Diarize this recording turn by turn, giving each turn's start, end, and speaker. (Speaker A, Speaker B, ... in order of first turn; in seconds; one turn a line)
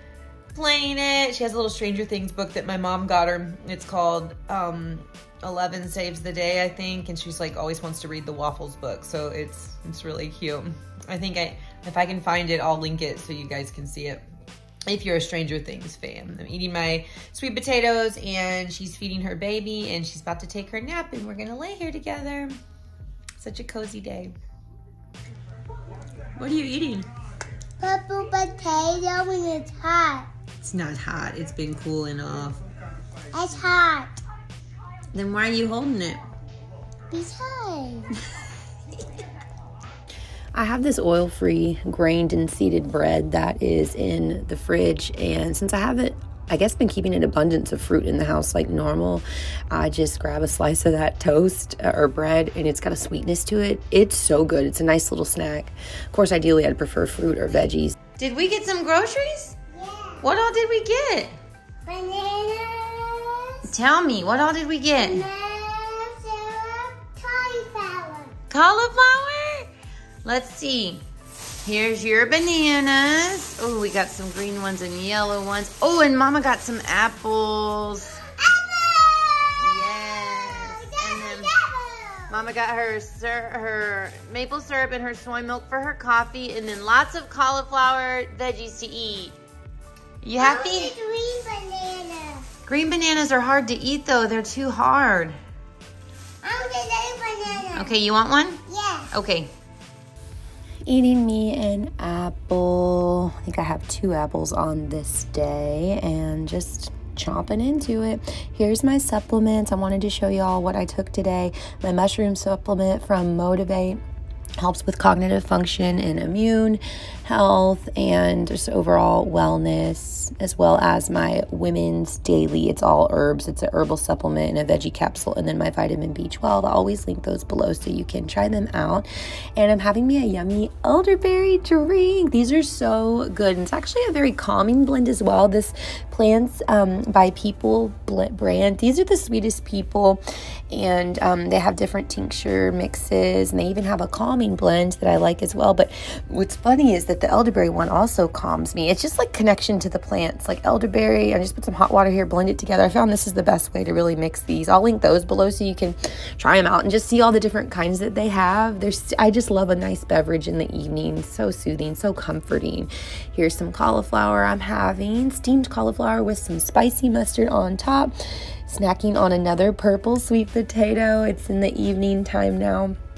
Speaker A: 0.5-14.2
Speaker A: 14.9-22.6
Speaker A: 23.4-24.3
Speaker A: 26.4-27.1
Speaker B: 27.8-30.3
Speaker A: 30.6-32.6
Speaker B: 33.3-34.2
Speaker A: 35.1-36.2
Speaker B: 37.1-38.1
Speaker C: 40.5-58.0
Speaker A: 58.2-59.5
Speaker B: 59.7-60.2
Speaker A: 60.2-61.3
Speaker B: 61.8-63.7
Speaker A: 63.6-65.3
Speaker B: 65.0-68.3
Speaker A: 68.5-69.7
Speaker A: 70.2-71.0
Speaker A: 71.6-78.2
Speaker B: 78.3-82.4
Speaker A: 79.6-81.5
Speaker A: 82.3-89.4
Speaker A: 90.2-91.0
Speaker B: 90.4-92.5
Speaker A: 92.7-95.4
Speaker B: 96.4-98.0
Speaker A: 97.7-99.5
Speaker B: 98.7-99.1
Speaker C: 100.9-114.0
Speaker C: 114.6-168.1
Speaker C: 168.7-172.9